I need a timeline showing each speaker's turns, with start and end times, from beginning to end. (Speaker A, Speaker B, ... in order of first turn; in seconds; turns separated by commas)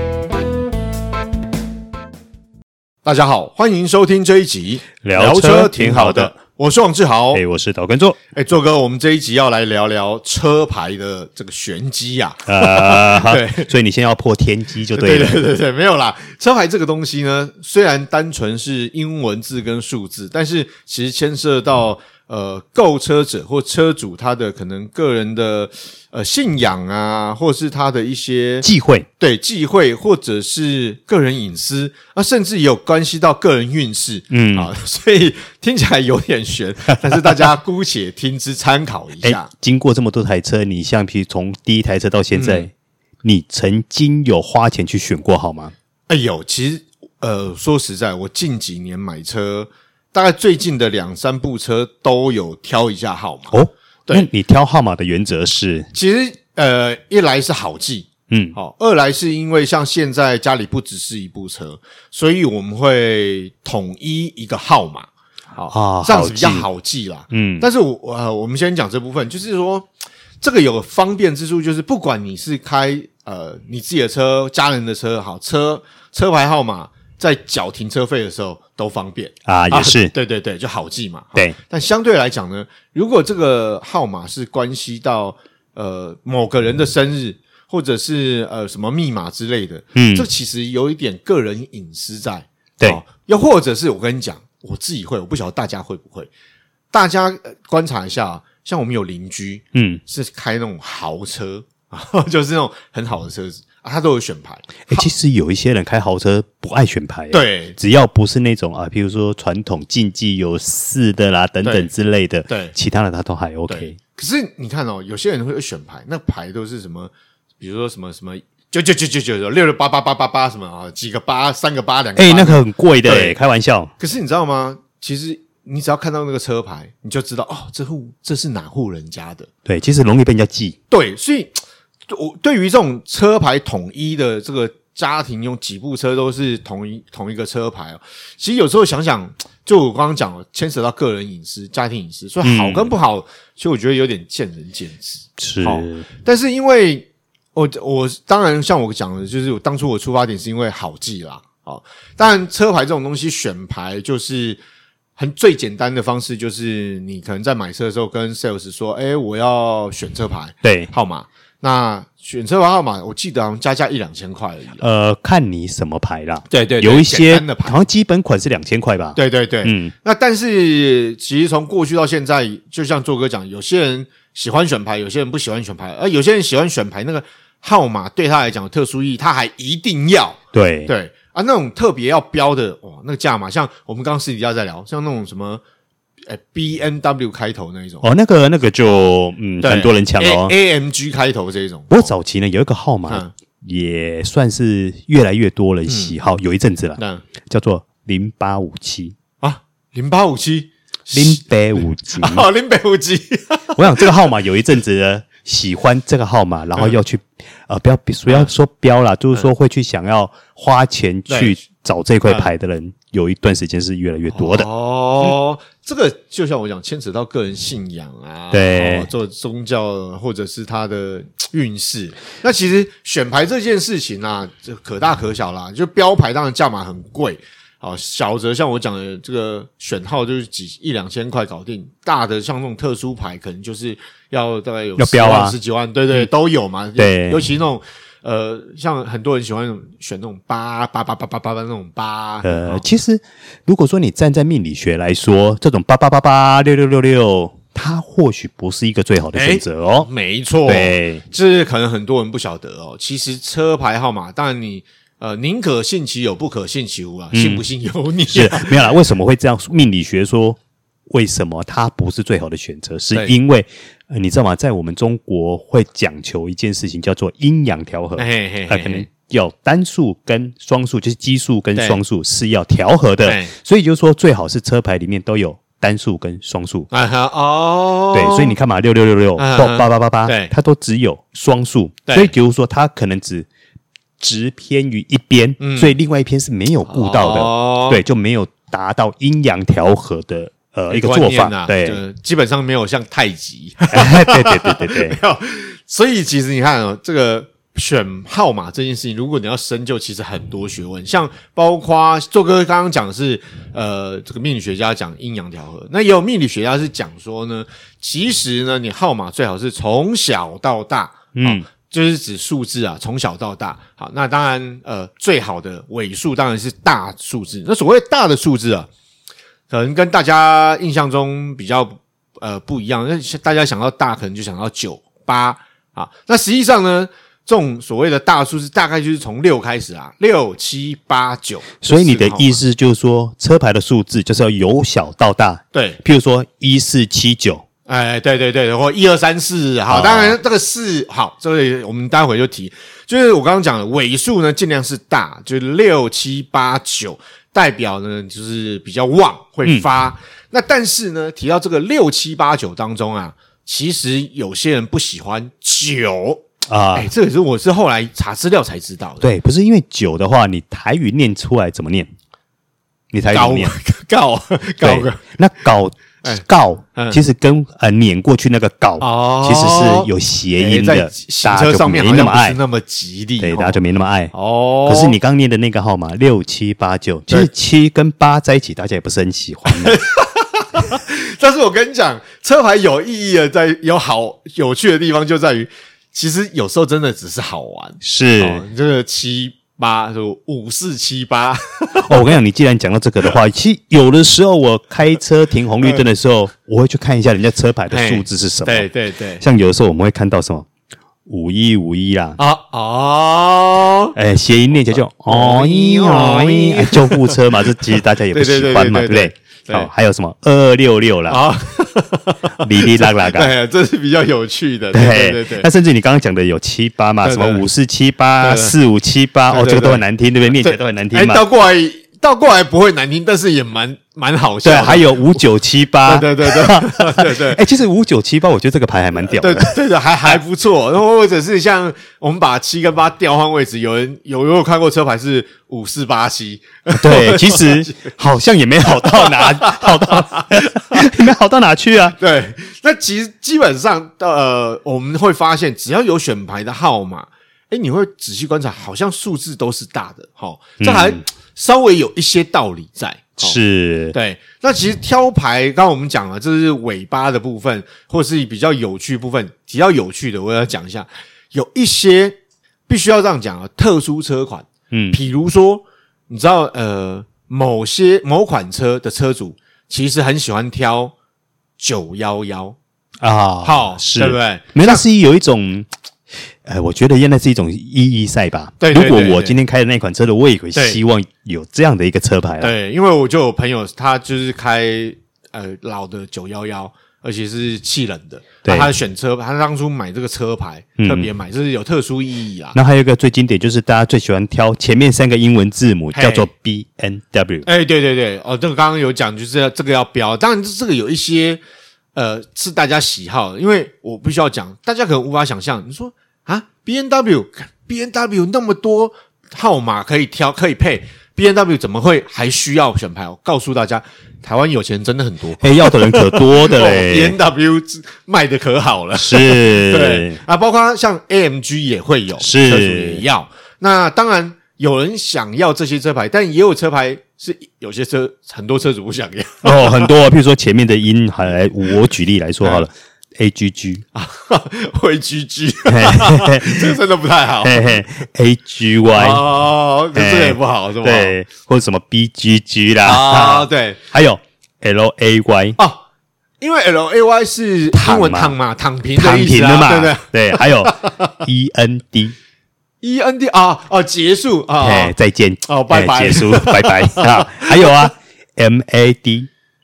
Speaker A: 3.0-7.4, Speaker B: 5.0-6.3, Speaker B: 7.3-8.2, Speaker A: 8.3-13.7, Speaker B: 12.4-15.4, Speaker A: 14.9-28.6, Speaker B: 28.6-29.1, Speaker A: 29.2-39.5, Speaker B: 34.3-34.7, Speaker B: 39.2-42.7, Speaker A: 42.3-42.7, Speaker B: 43.2-45.7, Speaker A: 46.1-54.3, Speaker B: 53.5-55.9, Speaker A: 55.9-69.9, Speaker B: 58.3-58.5, Speaker B: 65.7-66.7, Speaker B: 67.3-67.7, Speaker A: 70.4-96.3, Speaker B: 79.5-80.1, Speaker B: 89.9-90.2, Speaker A: 96.9-105.1, Speaker B: 99.7-100.0, Speaker B: 104.9-114.0, Speaker A: 107.3-107.8, Speaker A: 111.6-111.9, Speaker A: 112.5-112.7, Speaker A: 113.7-123.4, Speaker B: 122.2-123.9, Speaker A: 124.0-129.5, Speaker B: 129.7-130.8, Speaker A: 130.9-131.6, Speaker A: 132.1-154.6, Speaker B: 142.4-142.9, Speaker B: 145.4-146.1, Speaker A: 155.2-164.8, Speaker B: 160.6-160.9, Speaker B: 164.8-169.9, Speaker A: 166.5-167.8, Speaker A: 169.1-185.6, Speaker B: 180.5-180.9, Speaker A: 186.2-188.1, Speaker B: 188.0-190.5, Speaker A: 189.6-192.1, Speaker B: 191.9-199.1, Speaker A: 195.9-196.1, Speaker A: 197.0-197.2, Speaker A: 199.4-204.1, Speaker B: 201.1-202.4, Speaker B: 203.7-214.7, Speaker A: 211.3-211.6, Speaker A: 212.2-212.5, Speaker A: 214.3-242.8, Speaker B: 218.5-219.1, Speaker B: 235.0-235.5, Speaker B: 237.0-237.4, Speaker B: 242.4-250.1, Speaker A: 249.3-258.9, Speaker B: 250.7-251.2, Speaker B: 257.3-257.6, Speaker B: 258.3-260.6, Speaker B: 261.1-276.9, Speaker A: 268.2-269.1, Speaker A: 273.2-273.5, Speaker A: 276.9-278.6, Speaker B: 278.1-283.5, Speaker A: 279.4-280.5, Speaker A: 282.1-282.3, Speaker B: 284.2-292.0, Speaker A: 285.6-285.9, Speaker A: 286.9-288.0, Speaker A: 290.9-318.9, Speaker B: 293.9-295.2, Speaker B: 311.3-311.6, Speaker A: 319.7-332.6, Speaker B: 331.8-337.6, Speaker A: 335.7-336.0, Speaker A: 337.9-359.3, Speaker B: 339.9-340.4, Speaker B: 356.7-357.1, Speaker B: 359.2-362.1, Speaker B: 363.1-363.7, Speaker A: 363.3-365.2, Speaker B: 364.8-372.6, Speaker A: 366.2-367.2, Speaker A: 369.0-373.8, Speaker B: 373.4-374.3, Speaker A: 374.3-375.1, Speaker B: 374.9-380.0, Speaker A: 379.7-392.3, Speaker B: 388.0-388.6, Speaker B: 392.0-398.9, Speaker A: 397.9-399.4, Speaker B: 399.4-400.7, Speaker B: 401.3-402.4, Speaker A: 402.4-404.1, Speaker B: 404.1-411.4, Speaker A: 405.3-407.4, Speaker A: 408.3-409.9, Speaker A: 411.3-415.7, Speaker B: 412.6-413.5, Speaker B: 414.9-421.4, Speaker A: 417.2-417.6, Speaker A: 418.4-418.8, Speaker A: 419.5-425.4, Speaker B: 424.6-430.4, Speaker A: 426.0-427.6, Speaker A: 429.2-438.1, Speaker B: 436.9-442.2, Speaker A: 438.8-441.1, Speaker A: 442.1-453.6, Speaker B: 450.8-451.2, Speaker B: 453.4-454.1, Speaker A: 454.1-471.1, Speaker B: 464.9-465.2, Speaker A: 471.8-472.8, Speaker B: 473.2-475.9, Speaker A: 473.6-475.1, Speaker B: 476.6-482.7, Speaker A: 478.8-479.6, Speaker A: 480.7-481.0, Speaker A: 482.6-492.8, Speaker B: 488.6-488.9, Speaker B: 491.0-491.3, Speaker B: 492.7-497.7, Speaker A: 496.1-496.5, Speaker A: 497.6-501.6, Speaker A: 502.1-530.1, Speaker B: 515.6-517.4, Speaker B: 519.1-520.4, Speaker B: 522.4-523.2, Speaker B: 529.6-534.0, Speaker A: 532.6-532.9, Speaker A: 534.1-538.0, Speaker B: 535.9-537.0, Speaker B: 537.6-539.5, Speaker A: 539.1-541.4, Speaker B: 540.1-545.8, Speaker A: 543.0-544.0, Speaker A: 546.6-551.3, Speaker B: 547.9-548.5, Speaker B: 549.1-552.3, Speaker A: 553.0-558.1, Speaker B: 554.8-559.5